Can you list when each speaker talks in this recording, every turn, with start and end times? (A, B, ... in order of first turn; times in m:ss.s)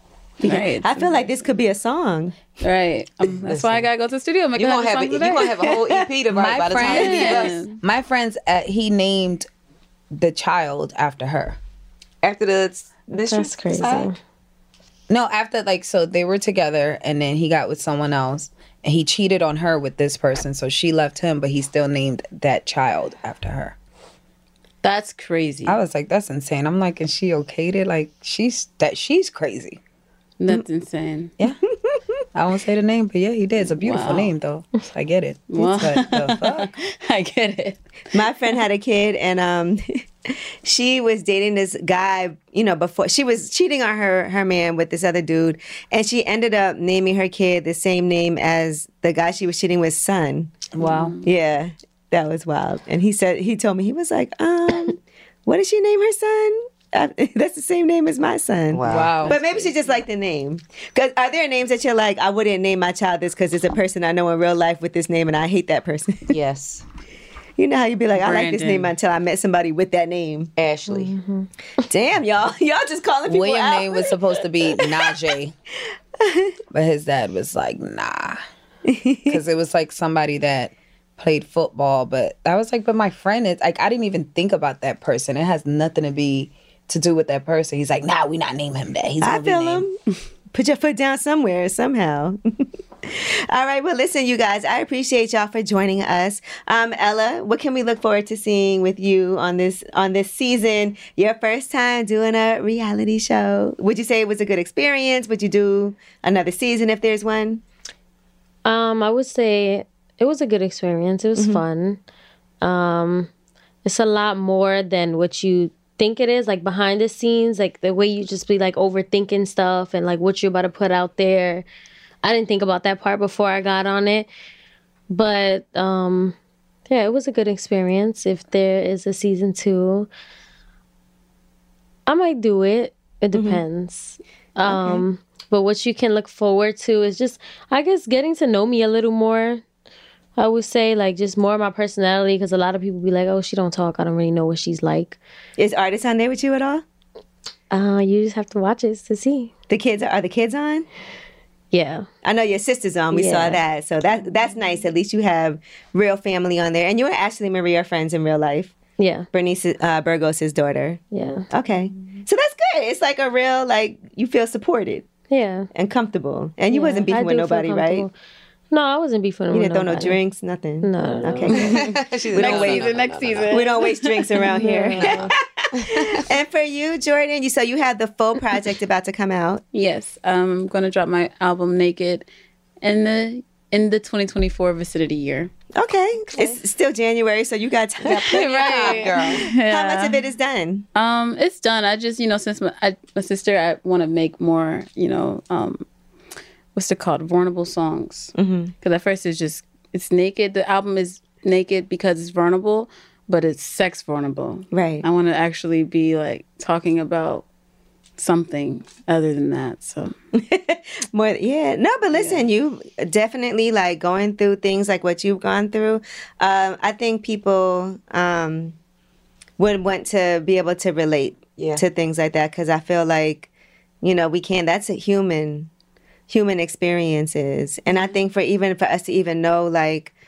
0:00.4-0:01.2 A
0:00.4-0:02.4 B
0:02.6-0:05.5 A
0:03.4-0:03.9 C
0:04.6-0:07.6 C
0:05.6-0:06.0 B
0:06.3-0:09.5 D
0:06.8-0:07.8 A
0:10.1-0:11.6 D
0:12.2-0:14.1 C
0:13.2-0:14.2 E
0:15.1-0:23.8 D
0:24.8-0:25.8 A
0:25.6-0:29.8 D
0:30.4-0:31.3 A
0:32.3-0:36.7 D
0:33.7-0:34.3 A
0:35.5-0:37.8 A
0:38.1-0:39.8 B
0:40.6-0:50.5 B
0:50.7-0:51.2 D
0:50.8-0:51.2 A
0:51.2-1:06.3 B
0:58.7-0:59.7 C
0:58.8-0:59.4 D
1:06.3-1:06.8 C
1:07.6-1:10.5 B
1:08.2-1:08.9 A
1:10.6-1:11.1 C
1:10.9-1:11.5 E
1:11.8-1:14.8 B
1:13.3-1:15.5 D
1:16.2-1:16.5 B
1:16.7-1:18.4 D
1:18.9-1:19.4 B
1:19.3-1:29.8 D
1:29.2-1:30.0 B
1:30.5-1:32.4 B
1:33.0-1:47.6 B
1:48.6-1:52.0 E
1:51.4-1:51.6 B
1:52.6-1:53.3 E
1:53.8-2:01.6 E
2:02.2-2:04.3 E
2:05.1-2:06.4 E
2:06.9-2:10.1 E
2:12.1-2:19.6 E
2:13.3-2:13.6 B
2:14.6-2:15.0 B
2:20.4-2:25.2 E
2:25.6-2:26.8 B
2:27.7-2:29.5 E
2:29.7-2:30.8 B
2:31.7-2:32.1 E
2:32.2-2:38.7 B
2:33.1-2:33.6 E
2:39.0-2:39.3 E
2:39.3-2:45.0 B
2:41.1-2:41.5 E
2:45.3-2:45.7 E
2:45.7-2:48.0 B
2:46.7-2:48.1 E
2:48.7-2:50.2 E
2:49.5-2:52.9 B
2:50.8-2:51.8 E
2:51.6-2:53.6 C
2:52.4-2:54.4 A
2:53.5-2:59.6 B
2:54.6-2:55.3 E
2:55.8-2:56.2 C
2:59.7-3:02.3 A
3:02.8-3:05.5 A
3:05.7-3:09.1 B
3:08.0-3:09.5 C
3:08.2-3:10.2 A
3:09.6-3:10.8 B
3:10.9-3:15.8 A
3:16.7-3:27.4 A
3:18.4-3:18.7 B
3:24.7-3:25.0 B
3:28.2-3:30.1 A
3:30.4-3:38.7 B
3:32.1-3:32.4 A
3:39.6-3:43.5 B
3:41.6-3:41.8 C
3:44.0-3:45.7 B
3:46.3-3:50.1 B